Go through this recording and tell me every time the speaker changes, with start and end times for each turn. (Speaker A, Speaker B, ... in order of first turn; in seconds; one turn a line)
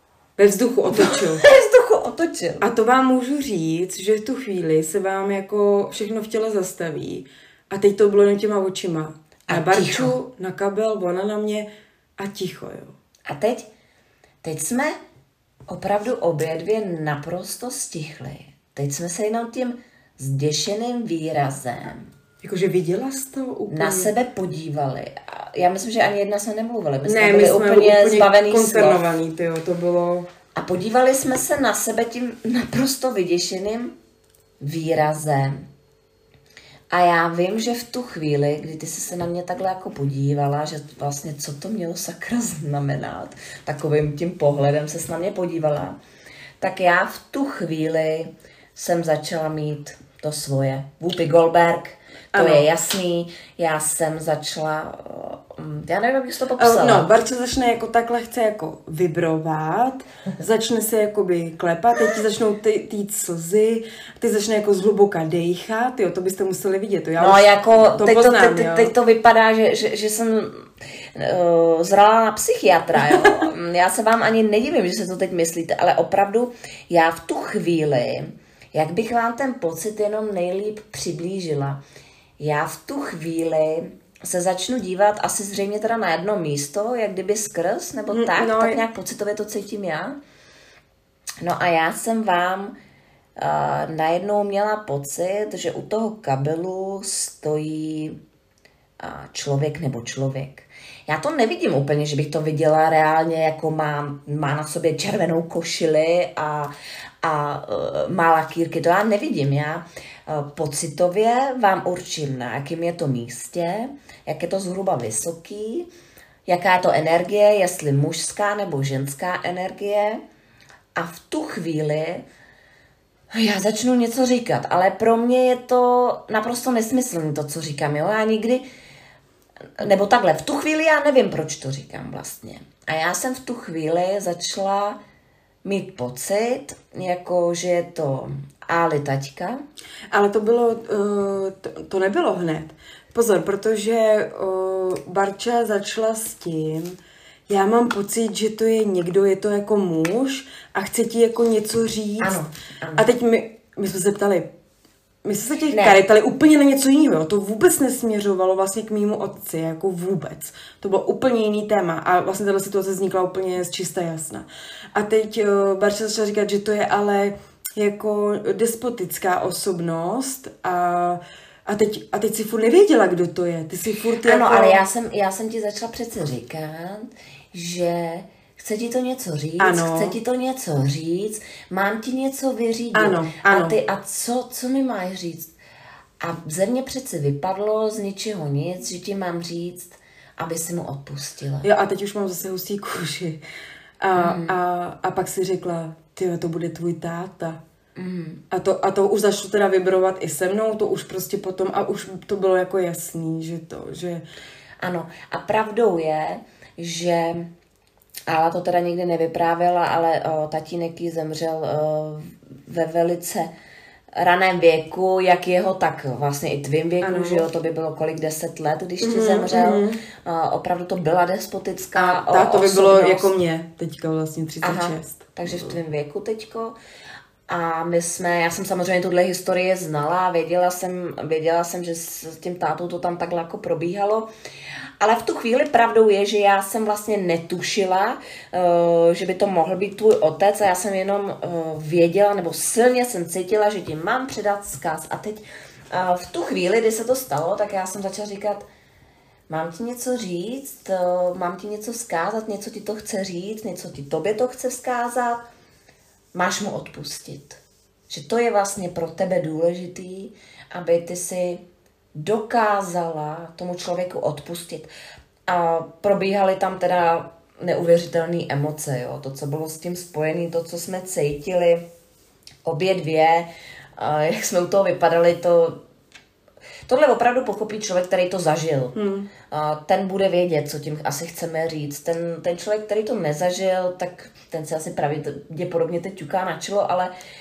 Speaker A: 0.4-1.4
Speaker B: 0.9-2.6
Speaker A: 2.6-11.7
Speaker B: 9.5-10.2
Speaker A: 12.2-12.9
Speaker B: 13.2-13.7
Speaker B: 14.4-14.9
Speaker B: 15.7-22.1
Speaker A: 22.4-24.1
Speaker B: 23.7-29.0
Speaker A: 27.1-30.3
Speaker B: 30.5-33.9
Speaker B: 34.6-35.6
Speaker B: 36.9-45.9
Speaker B: 46.6-57.1
Speaker A: 52.3-52.6
Speaker A: 56.6-68.9
Speaker B: 67.2-81.8
Speaker A: 73.1-73.4
Speaker B: 82.4-90.2
Speaker A: 88.1-88.8
Speaker B: 91.4-92.7
Speaker B: 93.4-98.2
Speaker B: 99.0-115.9
Speaker B: 116.5-120.2
Speaker B: 121.0-122.2
Speaker B: 123.3-128.7
Speaker B: 129.8-135.0
Speaker B: 135.6-139.6
Speaker A: 140.1-147.0
Speaker A: 147.5-152.4
Speaker B: 152.2-153.1
Speaker A: 152.9-154.5
Speaker A: 155.2-174.8
Speaker B: 155.7-156.0
Speaker B: 174.2-185.5
Speaker A: 179.6-180.2
Speaker A: 182.9-183.8
Speaker B: 186.2-191.7
Speaker A: 191.6-193.4
Speaker A: 194.0-197.6
Speaker B: 194.2-194.5
Speaker B: 197.9-198.4
Speaker A: 198.5-204.2
Speaker B: 204.8-207.5
Speaker B: 208.3-213.5
Speaker B: 214.1-223.3
Speaker A: 217.0-217.4
Speaker A: 219.0-220.0
Speaker A: 221.9-225.8
Speaker B: 224.6-226.8
Speaker B: 227.5-234.3
Speaker B: 235.0-248.6
Speaker B: 249.5-255.4
Speaker B: 256.3-261.6
Speaker B: 262.1-264.9
Speaker B: 265.5-271.8
Speaker B: 272.6-275.8
Speaker B: 276.9-278.9
Speaker A: 278.9-279.3
Speaker B: 279.5-287.1